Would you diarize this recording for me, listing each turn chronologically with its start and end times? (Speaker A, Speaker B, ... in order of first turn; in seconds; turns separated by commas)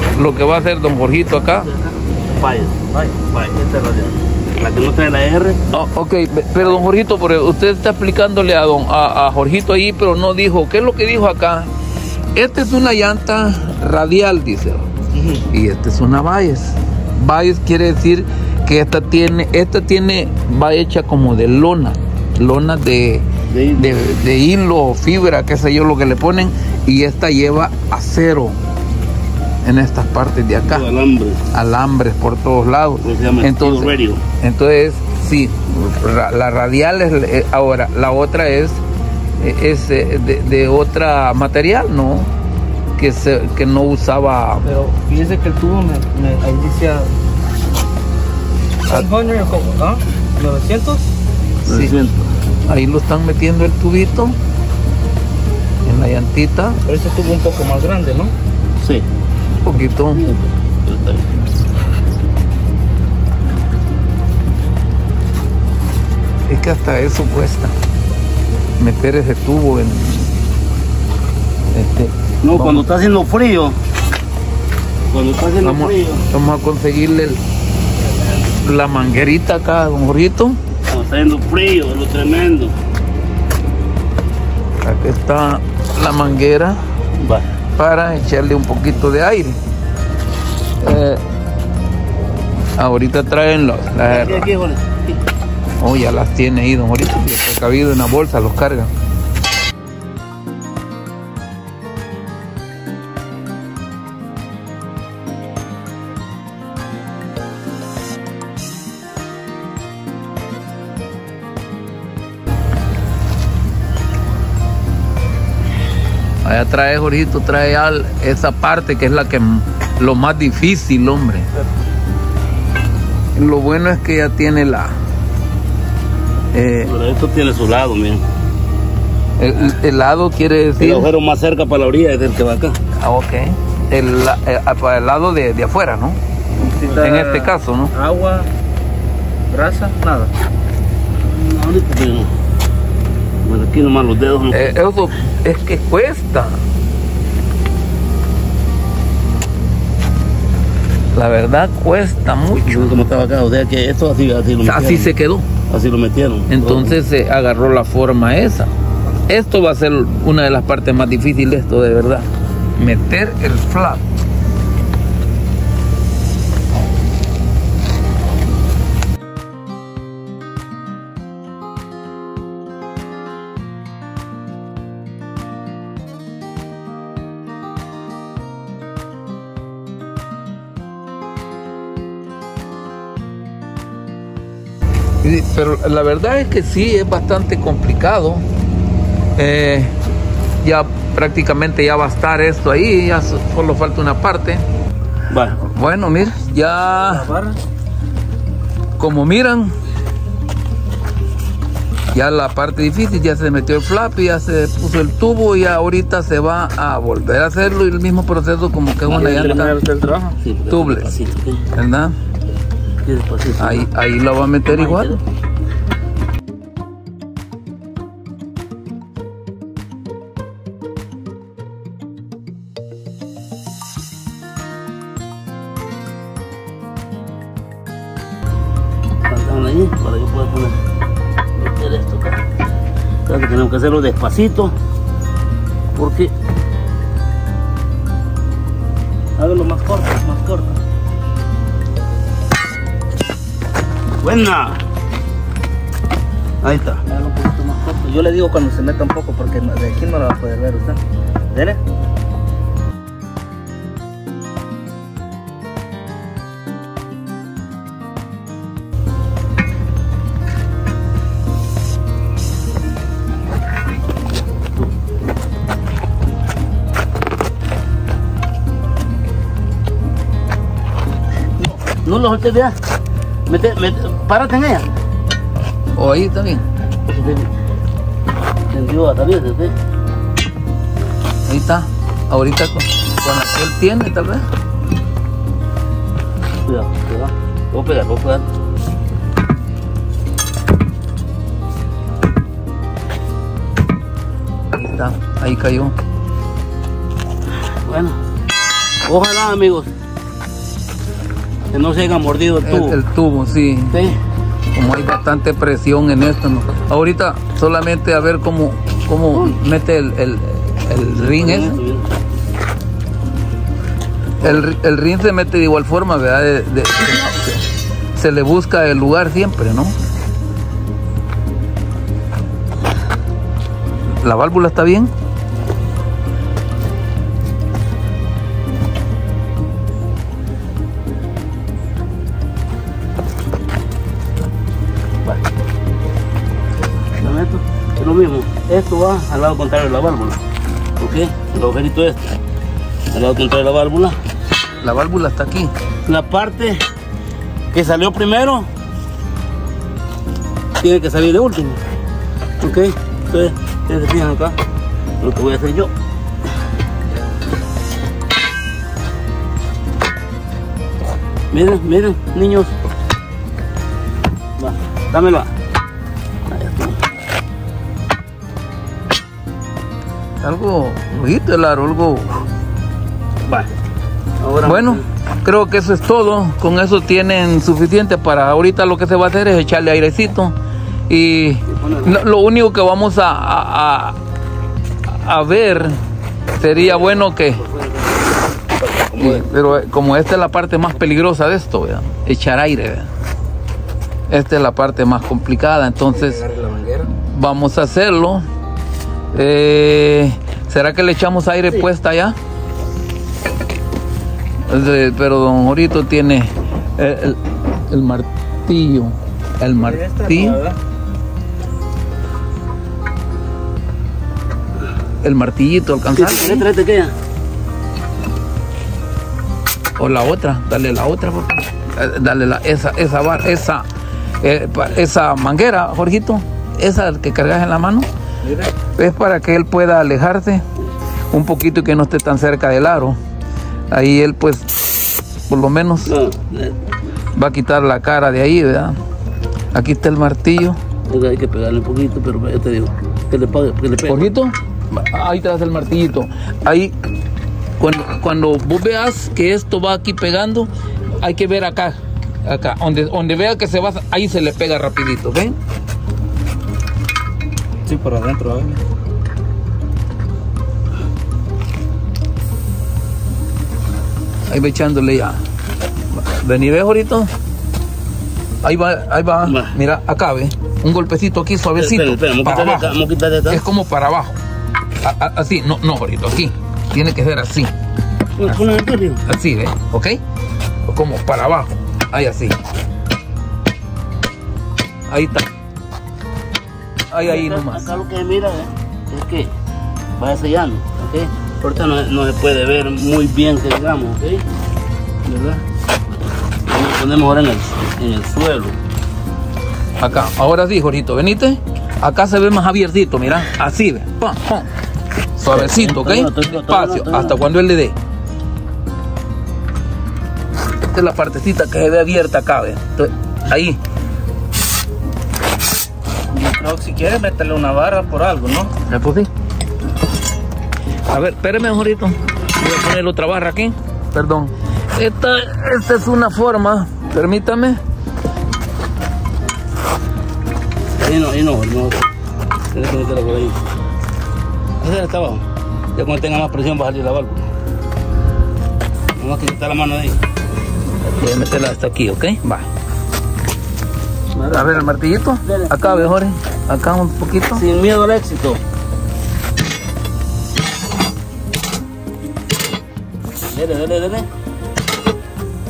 Speaker A: 0.1-1.7, Speaker B: 1.6-5.6, Speaker C: 2.9-3.2, Speaker A: 5.7-11.7, Speaker A: 12.3-14.9, Speaker C: 15.1-15.4, Speaker A: 15.5-28.6, Speaker B: 23.5-24.0, Speaker A: 29.6-30.9, Speaker B: 30.6-31.4, Speaker A: 31.5-38.8, Speaker B: 33.0-34.2, Speaker A: 39.4-42.3, Speaker A: 43.0-44.7, Speaker C: 44.6-47.1, Speaker C: 48.9-51.0, Speaker A: 51.6-52.0, Speaker B: 51.7-52.3, Speaker A: 52.7-54.4, Speaker A: 55.9-56.8, Speaker C: 56.9-58.3, Speaker B: 58.8-59.1, Speaker A: 59.6-60.3, Speaker B: 60.1-61.3, Speaker A: 66.5-67.7, Speaker A: 68.8-70.3, Speaker A: 71.7-72.9, Speaker B: 72.4-73.8, Speaker B: 75.1-76.2, Speaker A: 75.6-77.4, Speaker A: 78.6-80.6, Speaker B: 80.9-82.8, Speaker A: 84.8-86.8, Speaker B: 87.2-87.5, Speaker A: 87.8-89.6, Speaker A: 90.8-91.2, Speaker A: 92.8-94.5, Speaker B: 94.0-95.2, Speaker A: 95.8-98.9, Speaker A: 116.4-121.5, Speaker A: 123.4-125.0, Speaker A: 126.5-126.9, Speaker B: 126.8-128.2, Speaker A: 129.4-131.1, Speaker B: 130.8-132.8, Speaker A: 133.0-136.2, Speaker C: 136.6-138.5, Speaker A: 137.0-137.9, Speaker C: 139.5-140.3, Speaker B: 141.3-142.3, Speaker B: 143.4-144.7, Speaker A: 144.5-146.6, Speaker A: 151.1-153.1, Speaker B: 152.6-155.1, Speaker A: 154.6-155.5, Speaker B: 155.7-157.0, Speaker A: 156.5-158.7, Speaker A: 159.3-164.0, Speaker A: 185.2-188.4, Speaker A: 189.4-189.9, Speaker A: 190.6-194.7, Speaker B: 195.3-195.6, Speaker A: 195.6-197.3, Speaker C: 196.9-197.6, Speaker A: 199.0-199.8, Speaker A: 202.1-209.8, Speaker B: 209.1-211.6, Speaker C: 209.1-210.3, Speaker A: 210.7-211.1, Speaker A: 211.7-212.2, Speaker B: 213.1-213.9, Speaker A: 213.6-215.2, Speaker B: 214.7-215.2, Speaker B: 229.3-230.8, Speaker B: 231.6-232.4, Speaker B: 233.3-234.8, Speaker B: 235.9-236.3, Speaker C: 239.4-240.7, Speaker B: 244.2-244.8, Speaker B: 246.6-247.0, Speaker C: 247.1-251.8, Speaker B: 271.9-272.8, Speaker B: 273.5-274.9, Speaker A: 276.0-276.7, Speaker B: 277.1-277.5, Speaker B: 278.7-279.8, Speaker A: 281.5-284.5, Speaker B: 286.6-288.5, Speaker A: 294.7-296.0, Speaker B: 297.7-298.2, Speaker B: 299.1-299.9, Speaker B: 301.7-303.0, Speaker A: 302.6-304.1, Speaker B: 303.9-304.2, Speaker A: 304.7-311.8, Speaker B: 311.1-312.1, Speaker A: 314.4-317.6, Speaker A: 318.1-320.0, Speaker A: 324.2-325.1, Speaker B: 337.2-340.4, Speaker B: 341.0-342.3, Speaker B: 343.1-344.2, Speaker A: 344.8-345.7, Speaker B: 346.1-346.8, Speaker B: 347.7-348.7, Speaker B: 350.8-351.8, Speaker B: 352.6-354.6, Speaker B: 355.2-355.9, Speaker B: 361.5-362.7, Speaker B: 364.6-365.5, Speaker B: 366.5-367.0, Speaker A: 370.4-372.3, Speaker B: 374.4-375.0, Speaker A: 374.6-380.5, Speaker A: 381.1-384.2, Speaker B: 381.7-382.2, Speaker A: 385.1-386.0, Speaker A: 386.6-387.6, Speaker B: 386.8-389.5, Speaker A: 389.2-393.1, Speaker A: 394.3-396.4, Speaker C: 396.1-397.1, Speaker A: 397.2-398.5, Speaker A: 399.3-402.4, Speaker A: 404.7-410.6, Speaker C: 409.8-410.8, Speaker A: 415.2-416.7, Speaker B: 416.1-417.1, Speaker A: 420.0-423.9, Speaker A: 424.4-428.1, Speaker C: 428.4-428.7, Speaker A: 429.0-430.7, Speaker A: 431.3-433.2, Speaker A: 433.9-434.7, Speaker A: 435.5-436.1, Speaker B: 436.1-436.8, Speaker A: 437.4-439.0, Speaker A: 439.7-440.8, Speaker B: 441.1-444.3, Speaker A: 444.1-446.9, Speaker A: 447.8-450.7, Speaker A: 451.2-455.6, Speaker C: 457.9-458.8, Speaker A: 464.5-465.4, Speaker A: 466.1-467.3, Speaker A: 468.6-473.0, Speaker B: 469.5-469.8, Speaker B: 471.8-473.6, Speaker A: 473.5-474.4, Speaker A: 475.0-477.7, Speaker B: 478.4-479.2, Speaker A: 478.5-478.7, Speaker A: 479.2-480.2, Speaker A: 480.9-482.6, Speaker A: 485.1-485.5, Speaker A: 487.1-487.9, Speaker B: 487.2-489.5, Speaker B: 490.2-494.4, Speaker B: 495.2-495.6, Speaker B: 496.7-498.8, Speaker A: 500.0-504.7, Speaker A: 505.4-507.9, Speaker B: 505.5-507.4, Speaker A: 510.9-513.8, Speaker C: 516.3-518.7, Speaker A: 518.9-519.3, Speaker A: 521.1-527.8, Speaker B: 530.9-532.1, Speaker B: 532.7-533.6, Speaker B: 534.8-537.5, Speaker B: 539.2-540.2, Speaker A: 541.1-542.7, Speaker B: 544.4-544.9, Speaker A: 544.5-547.6, Speaker B: 545.4-546.1, Speaker B: 547.5-548.6, Speaker B: 553.5-554.3